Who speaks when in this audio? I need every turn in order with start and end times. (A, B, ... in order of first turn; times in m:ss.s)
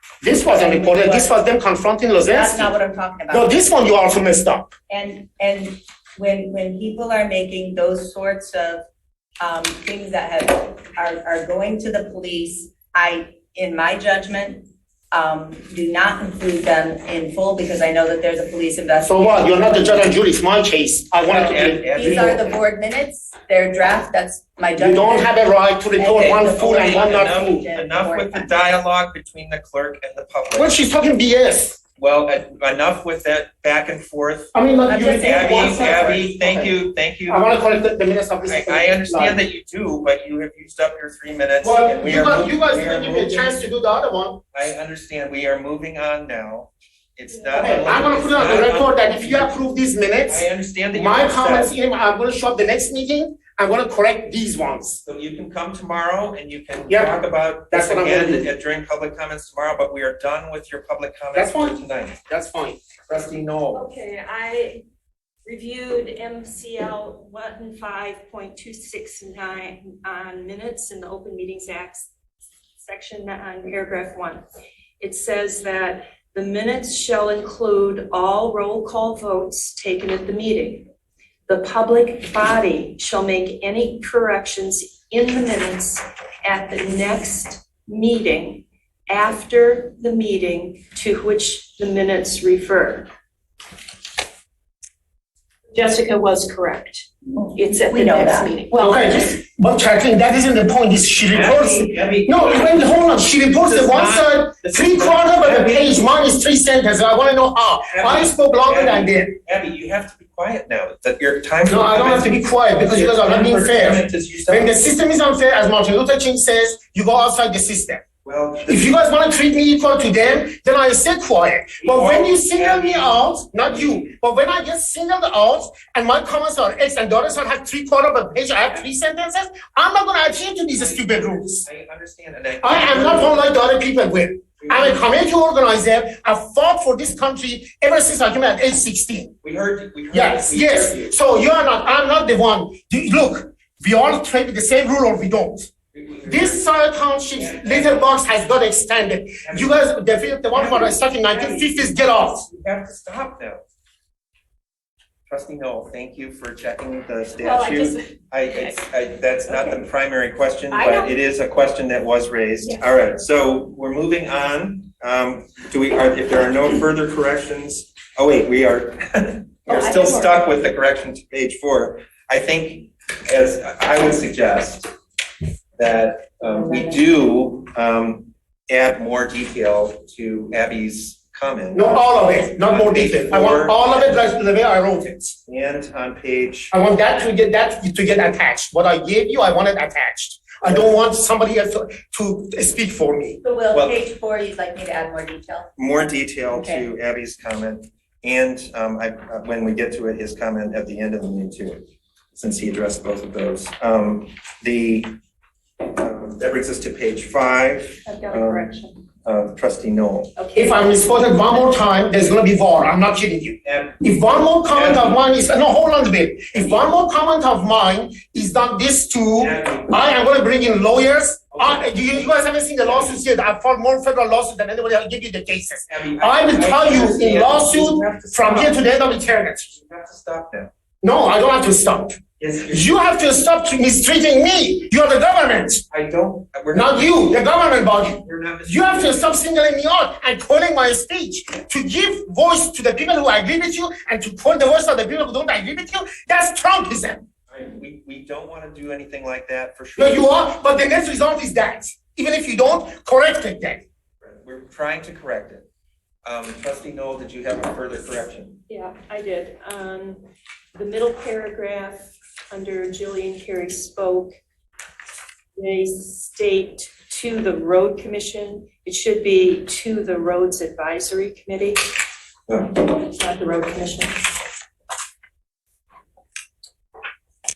0:00.2-0:02.7 A
0:00.5-0:01.3 B
0:02.3-0:03.6 B
0:03.3-0:04.7 A
0:04.9-0:08.8 B
0:09.4-0:20.1 B
0:19.0-0:22.3 A
0:21.3-0:25.4 B
0:21.4-0:22.5 C
0:24.8-0:27.6 A
0:26.0-0:28.5 B
0:26.2-0:30.8 C
0:30.6-0:31.8 A
0:32.0-0:34.5 C
0:34.5-0:36.7 A
0:34.9-0:36.3 B
0:35.1-0:37.6 C
0:37.3-0:39.4 A
0:38.4-0:43.5 C
0:41.6-0:44.4 A
0:44.5-0:49.5 C
0:47.3-0:48.0 D
0:47.6-0:55.0 A
0:50.3-0:51.7 C
0:55.0-1:02.2 C
0:56.9-0:57.2 A
0:57.7-0:58.5 A
1:01.3-1:02.8 A
1:03.1-1:03.8 C
1:03.7-1:04.8 D
1:05.4-1:12.1 D
1:12.8-1:14.4 D
1:15.0-1:20.9 D
1:21.5-1:33.1 D
1:35.7-1:39.0 D
1:37.3-1:38.6 B
1:38.7-1:49.3 A
1:41.3-1:43.0 C
1:43.6-1:46.1 C
1:47.9-1:54.9 C
1:51.7-1:58.0 A
1:58.2-1:58.9 C
1:58.6-2:11.6 A
2:01.8-2:04.1 C
2:10.7-2:13.4 C
2:12.6-2:19.3 A
2:14.6-2:15.0 C
2:19.4-2:21.1 C
2:20.1-2:25.7 A
2:25.9-2:26.6 C
2:26.2-2:32.5 A
2:27.4-2:28.1 C
2:29.4-2:29.8 C
2:30.5-2:33.6 C
2:35.3-2:54.9 C
2:37.5-2:38.1 D
2:40.7-2:41.1 D
2:55.8-3:04.2 C
3:01.7-3:05.3 A
3:05.4-3:06.7 C
3:06.7-3:13.4 A
3:10.7-3:10.9 C
3:13.4-3:15.7 B
3:13.7-3:14.0 C
3:15.8-3:25.2 C
3:16.5-3:16.9 B
3:25.8-3:28.7 C
3:28.0-3:29.0 D
3:29.2-3:30.3 C
3:30.4-3:30.9 D
3:30.6-3:49.7 A
3:33.6-3:34.0 C
3:34.7-3:35.2 C
3:39.4-3:40.0 C
3:41.5-3:43.2 C
3:45.9-3:48.8 C
3:49.7-3:50.7 C
3:51.0-3:52.2 A
3:52.4-3:53.0 C
3:52.7-3:55.8 A
3:55.9-3:59.3 C
3:56.7-4:07.2 A
4:07.5-4:10.3 C
4:10.0-4:13.8 A
4:14.2-4:15.6 C
4:16.2-4:18.6 C
4:18.7-4:24.4 D
4:25.6-4:32.0 D
4:32.7-4:34.3 D